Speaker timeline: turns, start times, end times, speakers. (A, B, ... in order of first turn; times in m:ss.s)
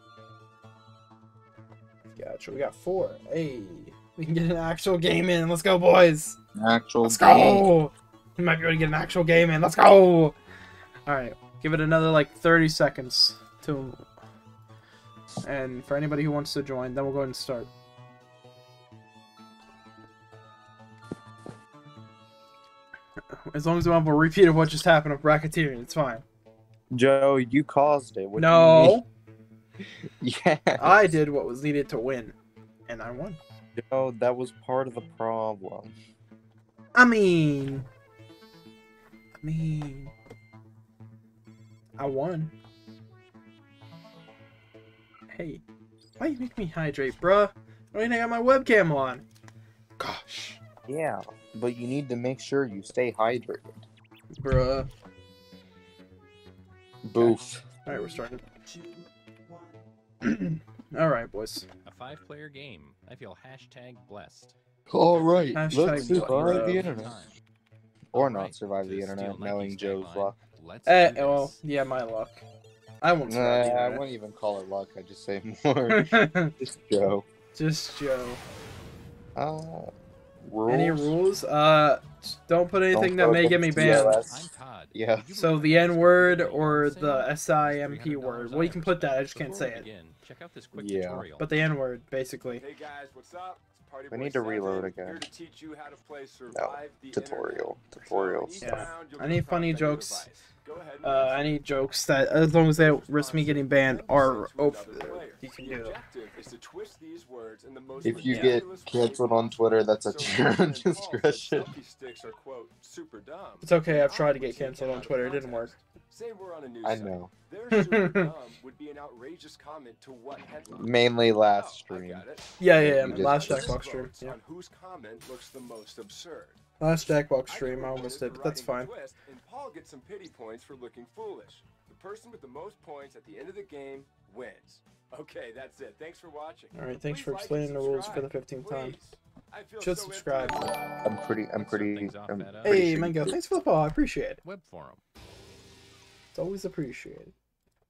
0:02.2-0:06.4 A
0:06.5-0:07.7 B
0:07.0-0:10.4 A
0:11.0-0:14.0 A
0:15.4-0:17.7 A
0:23.3-0:26.2 A
0:26.9-0:29.0 B
0:28.4-0:29.0 A
0:30.0-0:31.2 B
0:30.8-0:32.3 A
0:32.9-0:33.4 A
0:33.8-0:35.9 B
0:36.9-0:37.8 A
0:39.4-0:40.1 A
0:42.0-0:42.5 A
0:45.3-0:45.6 A
0:46.2-0:49.2 A
0:50.0-0:50.6 A
0:50.9-0:53.8 B
0:54.4-0:54.9 A
0:57.0-0:57.6 B
0:57.2-0:58.4 A
1:00.2-1:01.7 A
1:01.8-1:04.5 C
1:04.9-1:07.2 B
1:05.2-1:07.3 C
1:05.5-1:06.9 A
1:08.1-1:10.4 B
1:08.1-1:11.6 C
1:10.8-1:12.4 A
1:13.0-1:14.0 A
1:13.3-1:17.3 B
1:15.9-1:16.5 A
1:17.5-1:18.4 A
1:19.4-1:21.2 B
1:20.7-1:24.2 A
1:22.9-1:25.3 B
1:23.8-1:31.5 C
1:25.3-1:29.8 A
1:30.7-1:31.2 B
1:31.4-1:32.6 A
1:32.6-1:41.5 D
1:34.1-1:35.2 B
1:36.5-1:38.8 B
1:38.6-1:40.3 A
1:41.0-1:46.0 A
1:42.8-2:02.4 D
1:48.0-1:51.7 B
1:48.2-1:48.6 A
1:53.6-1:55.7 A
1:56.8-1:57.3 B
1:57.7-1:58.3 A
2:00.7-2:03.8 B
2:02.6-2:04.4 A
2:03.1-2:06.6 D
2:06.8-2:08.9 A
2:07.5-2:20.8 D
2:16.7-2:19.0 A
2:19.8-2:20.6 A
2:21.0-2:23.4 B
2:21.6-2:22.8 C
2:22.6-2:24.4 A
2:24.4-2:25.0 C
2:26.3-2:27.3 A